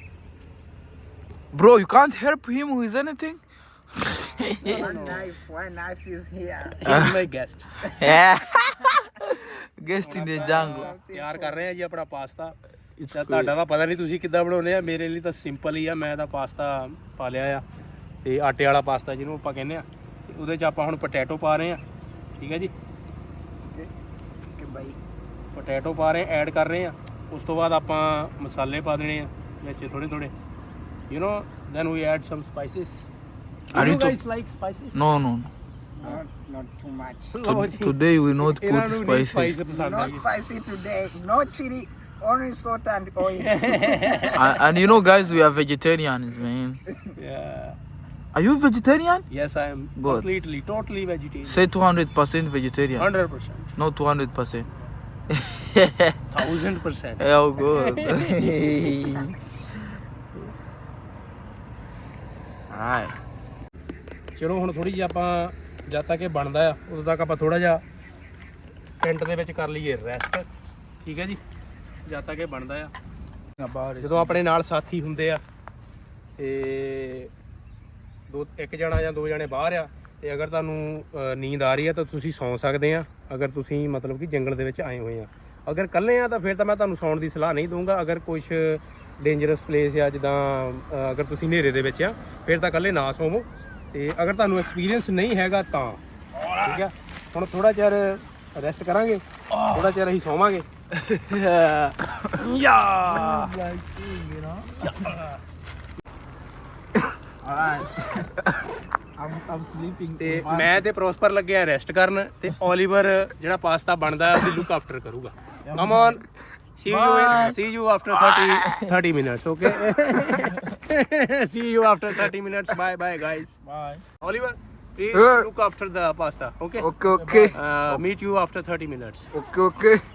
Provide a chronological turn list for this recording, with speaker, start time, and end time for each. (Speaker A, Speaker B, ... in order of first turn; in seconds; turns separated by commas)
Speaker A: 1.5-3.4, Speaker A: 3.9-5.2, Speaker B: 4.7-6.7, Speaker C: 4.7-5.2, Speaker C: 6.8-7.9, Speaker A: 6.8-7.2, Speaker A: 7.9-10.9, Speaker C: 10.0-12.6, Speaker B: 10.1-11.6, Speaker A: 13.0-13.5, Speaker C: 13.1-17.6, Speaker C: 18.2-21.8, Speaker C: 22.4-22.7, Speaker B: 23.6-23.9, Speaker B: 24.6-25.0, Speaker C: 25.5-30.3, Speaker C: 31.1-33.0, Speaker C: 33.7-35.0, Speaker A: 33.7-34.2, Speaker A: 34.9-35.5, Speaker B: 36.0-37.4, Speaker C: 37.3-40.3, Speaker A: 37.4-39.6, Speaker B: 39.7-44.3, Speaker C: 43.4-44.5, Speaker A: 44.3-46.8, Speaker C: 47.2-47.8, Speaker A: 48.3-49.3, Speaker C: 49.3-51.7, Speaker A: 50.0-50.3, Speaker A: 51.4-53.1, Speaker C: 53.0-53.7, Speaker A: 53.8-54.7, Speaker A: 55.3-56.2, Speaker C: 56.3-58.6, Speaker A: 57.2-59.4, Speaker A: 62.7-63.2, Speaker C: 64.4-67.8, Speaker C: 69.0-70.5, Speaker C: 71.0-71.4, Speaker C: 72.1-72.9, Speaker A: 73.6-74.4, Speaker C: 74.0-75.4, Speaker C: 76.4-77.3, Speaker C: 78.3-96.0, Speaker C: 96.6-100.7, Speaker A: 99.5-100.0, Speaker A: 100.9-105.2, Speaker C: 102.4-103.5, Speaker C: 104.9-105.4, Speaker A: 109.2-110.9, Speaker C: 110.2-116.2, Speaker A: 115.6-116.2, Speaker C: 116.8-123.6, Speaker A: 116.9-117.6, Speaker A: 120.2-120.6, Speaker A: 123.6-124.0, Speaker C: 124.2-126.9, Speaker B: 126.9-127.5, Speaker A: 126.9-128.0, Speaker C: 127.5-129.3, Speaker B: 129.3-130.0